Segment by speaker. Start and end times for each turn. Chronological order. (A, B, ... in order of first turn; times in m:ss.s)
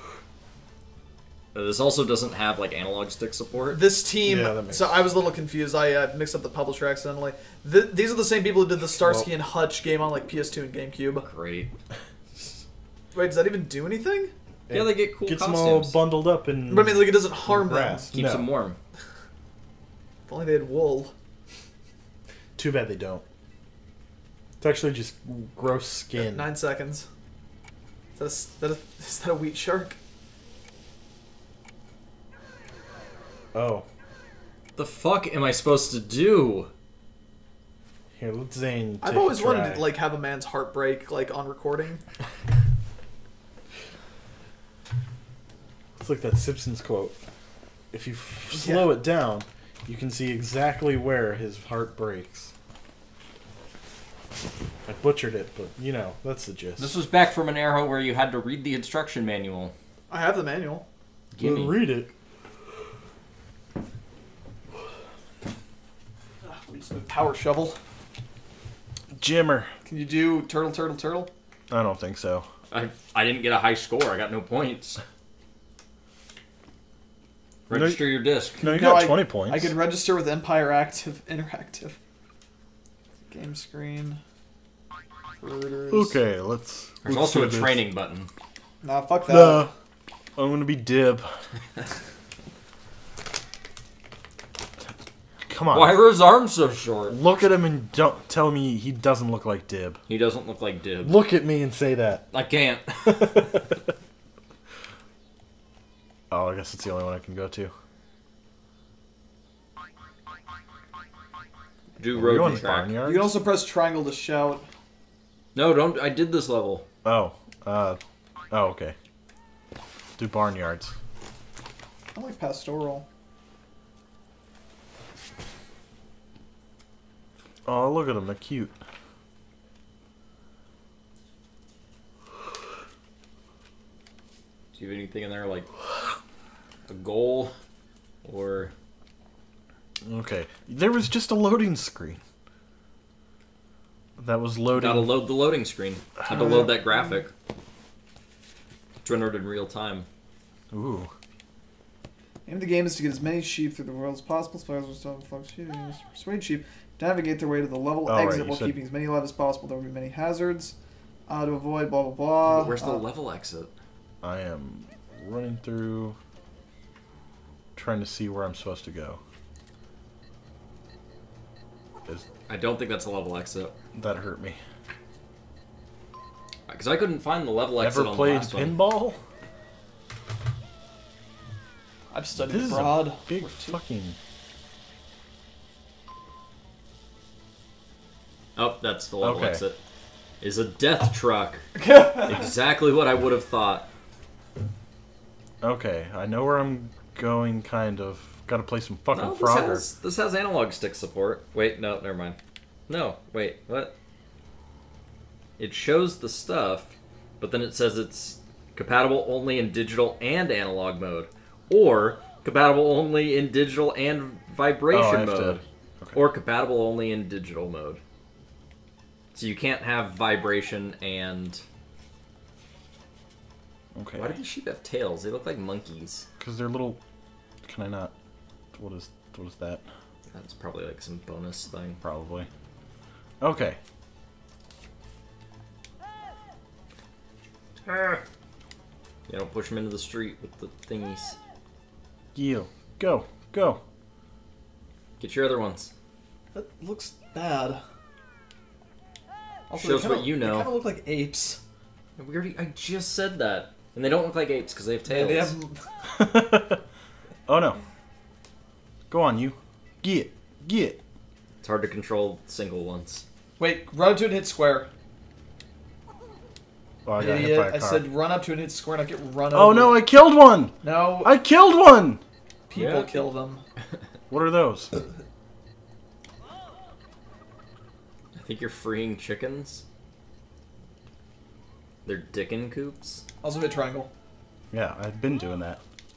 0:01.5-0:03.8 A
0:03.7-0:11.3 B
0:04.2-0:05.1 C
0:09.0-0:09.3 C
0:11.2-0:11.7 A
0:13.1-0:14.3 B
0:14.7-0:18.5 C
0:14.7-0:16.0 A
0:16.7-0:18.1 B
0:18.1-0:18.8 A
0:20.3-0:21.1 B
0:22.6-0:23.2 C
0:24.6-0:26.5 C
0:26.2-0:27.1 B
0:28.2-0:30.0 B
0:33.5-0:33.8 C
0:34.8-0:36.7 A
0:38.1-0:39.9 C
0:39.0-0:42.0 B
0:46.0-0:47.1 C
0:47.9-0:52.5 C
0:48.5-0:48.9 B
0:54.8-0:56.9 C
0:56.8-0:59.7 A
1:00.1-1:00.8 B
1:01.3-1:01.9 A
1:01.4-1:02.1 C
1:06.4-1:07.8 B
1:09.1-1:09.7 C
1:09.9-1:11.3 B
1:11.7-1:12.5 C
1:12.7-1:15.0 A
1:17.7-1:18.6 A
1:17.7-1:19.8 C
1:18.6-1:22.0 B
1:23.3-1:24.2 B
1:25.4-1:26.2 B
1:25.9-1:27.8 C
1:27.0-1:28.3 A
1:28.8-1:29.7 B
1:29.3-1:29.7 C
1:30.4-1:31.3 C
1:35.5-1:36.0 C
1:35.7-1:37.2 A
1:37.1-1:40.0 C
1:40.1-1:41.2 A
1:41.0-1:42.3 C
1:42.3-1:43.6 A
1:43.0-1:43.6 C
1:46.3-1:47.7 C
1:52.0-1:53.0 A
1:52.1-1:53.3 C
1:53.0-1:54.6 B
1:55.5-1:56.8 A
1:57.0-1:58.0 C
1:58.5-1:59.0 C
2:00.2-2:01.0 C
2:02.1-2:03.0 B
2:07.6-2:08.7 C
2:14.8-2:15.7 A
2:16.9-2:17.5 A
2:18.2-2:18.7 A
2:20.0-2:22.2 C
2:24.2-2:25.1 C
2:24.7-2:27.3 A
2:26.3-2:27.2 B
2:29.0-2:30.1 A
2:30.7-2:31.1 C
2:32.5-2:40.8 B
2:38.0-2:38.8 C
2:41.3-2:43.0 B
2:42.4-2:43.7 A
2:44.2-2:46.2 C
2:47.8-2:49.2 C
2:52.5-2:53.7 A
2:53.9-2:54.6 C
2:56.7-2:58.8 A
2:57.8-2:59.2 C
3:02.1-3:03.8 B
3:02.4-3:04.2 C
3:08.6-3:09.8 A
3:09.2-3:09.6 C
3:10.4-3:11.7 A
3:11.8-3:12.5 B
3:12.2-3:13.9 A
3:15.6-3:19.9 C
3:19.1-3:22.4 A
3:22.9-3:23.9 A
3:25.6-3:35.6 A
3:34.9-3:36.2 C
3:36.1-3:38.0 A
3:39.3-3:41.6 A
3:44.0-3:44.4 C
3:44.1-3:46.2 A
3:46.4-3:47.0 C
3:47.6-3:48.1 C
3:48.7-3:49.8 C
3:50.3-3:52.0 A
3:52.0-3:52.5 C
3:53.4-3:53.8 C
3:57.8-3:58.2 A
3:59.3-4:01.4 A
4:02.4-4:03.8 C
4:05.2-4:05.9 A
4:06.5-4:07.8 B
4:09.7-4:11.6 B
4:09.8-4:10.7 A
4:12.2-4:15.5 A
4:15.1-4:15.8 B
4:16.1-4:16.8 C
4:17.5-4:17.8 C
4:19.1-4:21.0 C
4:21.6-4:23.2 A
4:23.6-4:24.9 B
4:27.0-4:28.1 C
4:27.2-4:30.0 B
4:29.5-4:32.2 C
4:30.8-4:31.3 B
4:32.7-4:33.6 B
4:32.8-4:33.3 A
4:34.3-4:34.9 C
4:38.4-4:39.8 A
4:42.0-4:43.2 A
4:43.4-4:44.1 B
4:44.7-4:45.8 C